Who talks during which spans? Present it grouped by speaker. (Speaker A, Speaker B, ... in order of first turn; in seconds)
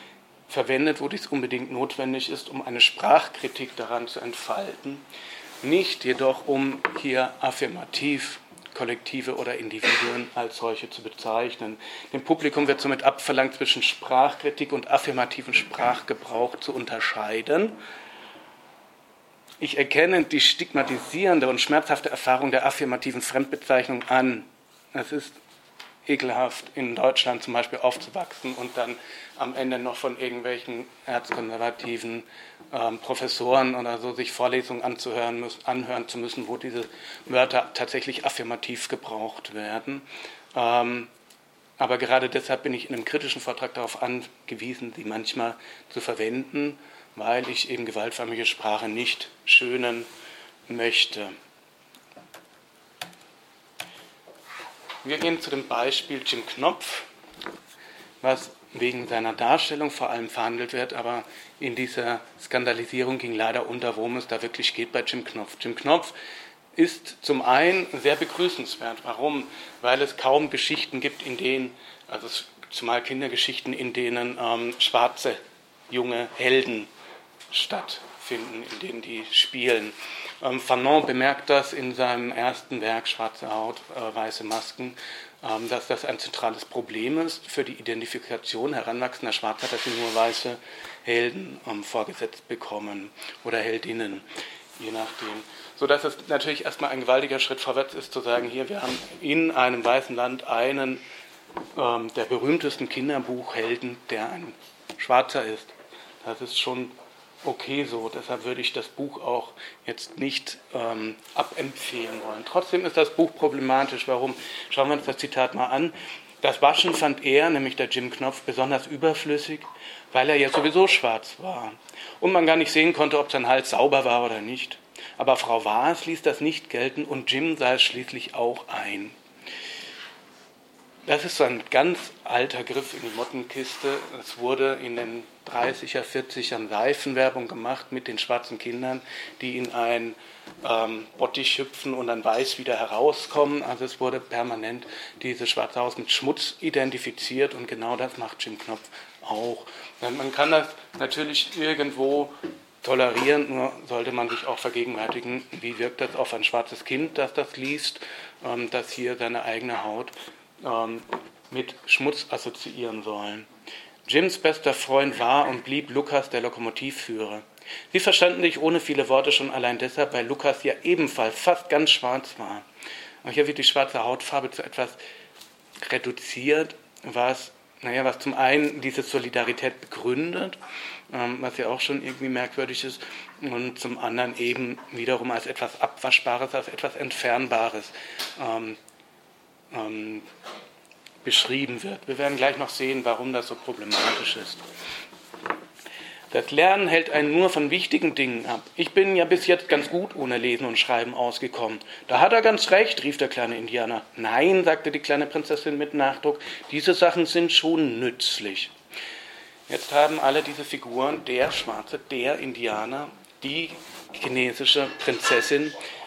Speaker A: 0.5-5.0, 5.6-17.8, 19.6-25.4, 26.1-41.1, 41.8-50.1, 50.7-51.4, 55.0-57.1, 58.2-66.2, 66.8-76.9, 77.5-94.2, 94.8-101.0, 101.7-129.2, 131.1-163.5, 164.1-172.6, 173.2-175.0, 175.8-188.8, 189.7-190.3, 191.2-194.6, 196.3-208.7, 209.7-215.8